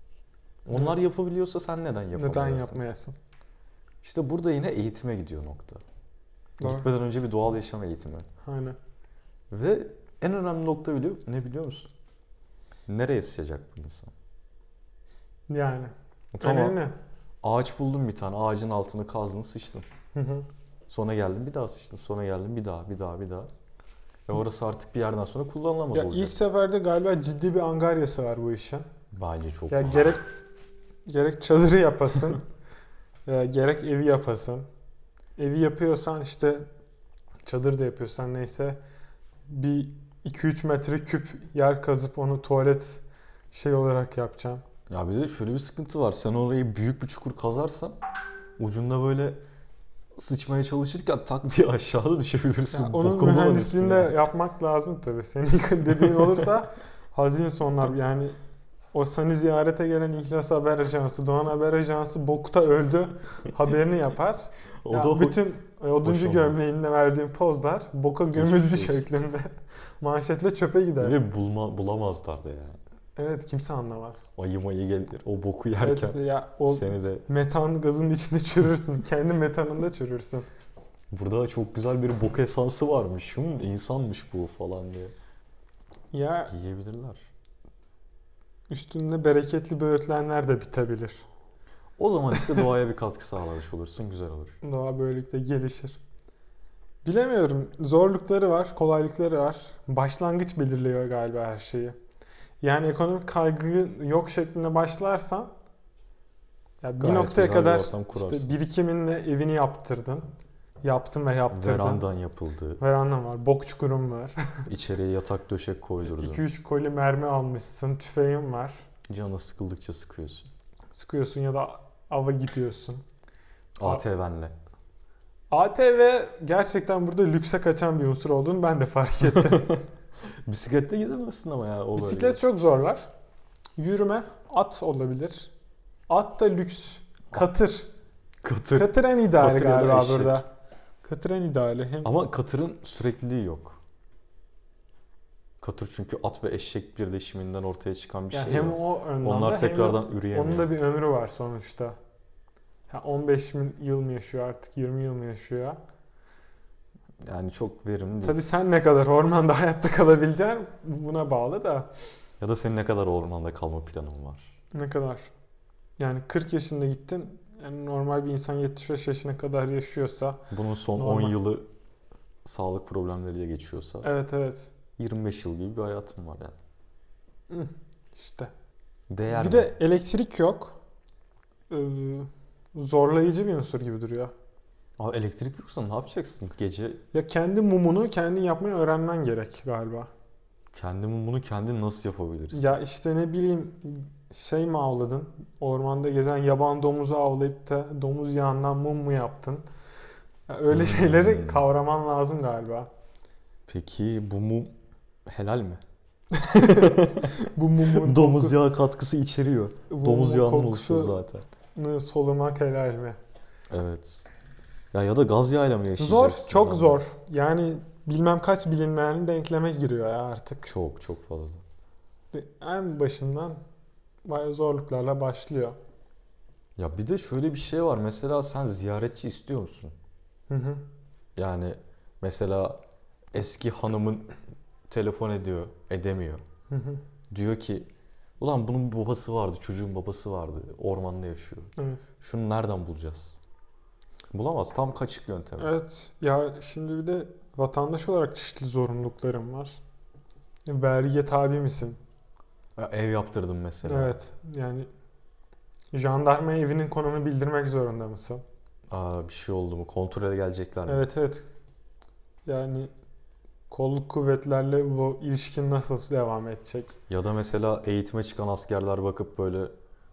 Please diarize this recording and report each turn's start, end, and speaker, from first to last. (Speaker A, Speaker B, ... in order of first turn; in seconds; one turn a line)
Speaker A: 0.7-2.8
Speaker B: 0.7-1.0
Speaker B: 2.1-3.1
Speaker A: 4.0-5.8
Speaker B: 6.6-6.9
Speaker A: 6.6-8.2
Speaker B: 8.4-8.8
Speaker A: 9.5-11.9
Speaker A: 12.9-14.1
Speaker B: 15.5-16.9
Speaker A: 16.3-16.8
Speaker A: 17.4-19.9
Speaker B: 20.1-20.5
Speaker A: 20.9-23.5
Speaker A: 24.3-26.3
Speaker B: 25.9-28.9
Speaker A: 29.1-30.2
Speaker B: 29.7-30.2
Speaker B: 31.1-32.4
Speaker B: 33.2-34.7
Speaker B: 35.4-36.7
Speaker B: 37.4-38.8
Speaker B: 39.5-44.6
Speaker A: 44.9-48.0
Speaker A: 48.6-49.4
Speaker A: 50.1-54.1
Speaker B: 52.7-58.4
Speaker B: 58.9-71.2
Speaker A: 64.8-66.7
Speaker A: 68.3-69.0
Speaker A: 71.0-72.8
Speaker B: 73.2-74.3
Speaker A: 74.4-77.2
Speaker B: 75.8-80.5
Speaker A: 81.1-85.1
Speaker B: 86.1-86.5
Speaker A: 86.5-87.3
Speaker B: 88.7-91.2
Speaker A: 92.0-94.5
Speaker B: 92.3-92.6
Speaker B: 94.6-96.0
Speaker B: 97.0-102.0
Speaker B: 102.6-105.5
Speaker B: 106.8-110.3
Speaker A: 107.0-108.5
Speaker B: 110.8-112.0
Speaker A: 111.5-112.8
Speaker B: 112.8-114.4
Speaker A: 114.7-116.4
Speaker B: 116.1-118.8
Speaker A: 119.1-120.5
Speaker B: 120.9-123.0
Speaker A: 123.8-124.5
Speaker B: 125.5-129.8
Speaker A: 129.3-129.7
Speaker A: 130.4-132.4
Speaker B: 132.0-133.1
Speaker B: 133.8-135.5
Speaker B: 136.1-137.9
Speaker A: 138.4-140.4
Speaker B: 138.7-140.5
Speaker B: 141.0-142.1
Speaker A: 142.0-143.8
Speaker A: 145.6-150.8
Speaker B: 148.3-152.0
Speaker B: 152.9-155.8
Speaker A: 157.2-158.4
Speaker B: 158.2-161.9
Speaker A: 162.4-164.5
Speaker B: 164.7-165.3
Speaker B: 166.0-170.4
Speaker A: 170.5-171.7
Speaker B: 170.9-171.4
Speaker A: 172.4-174.1
Speaker B: 174.0-174.7
Speaker A: 175.0-176.6
Speaker B: 177.5-178.5
Speaker A: 179.1-179.7
Speaker B: 179.3-180.8
Speaker B: 181.7-184.3
Speaker A: 185.0-187.0
Speaker B: 187.1-190.1
Speaker A: 190.7-192.8
Speaker B: 192.5-199.7
Speaker B: 200.5-202.9
Speaker A: 200.7-201.6
Speaker A: 203.7-204.7
Speaker A: 205.3-205.8
Speaker B: 206.3-208.6
Speaker A: 206.6-207.3
Speaker A: 207.9-211.4
Speaker B: 209.9-211.2
Speaker B: 211.7-213.2
Speaker A: 213.7-214.3
Speaker A: 214.9-217.0
Speaker B: 216.0-220.7
Speaker A: 220.6-221.6
Speaker B: 222.3-223.6
Speaker B: 224.2-225.8
Speaker A: 226.8-229.9
Speaker B: 230.5-230.8
Speaker A: 231.3-232.8
Speaker A: 233.3-234.3
Speaker A: 234.9-236.4
Speaker B: 236.7-237.0
Speaker A: 237.3-237.9
Speaker A: 238.4-243.4
Speaker B: 241.8-242.0
Speaker A: 244.3-245.7
Speaker B: 245.6-249.8
Speaker B: 250.7-252.0
Speaker A: 252.8-254.2
Speaker B: 253.8-254.9
Speaker B: 255.9-258.4
Speaker A: 258.9-261.1
Speaker B: 260.9-261.5
Speaker B: 262.4-262.9
Speaker B: 263.7-266.9
Speaker A: 267.1-269.7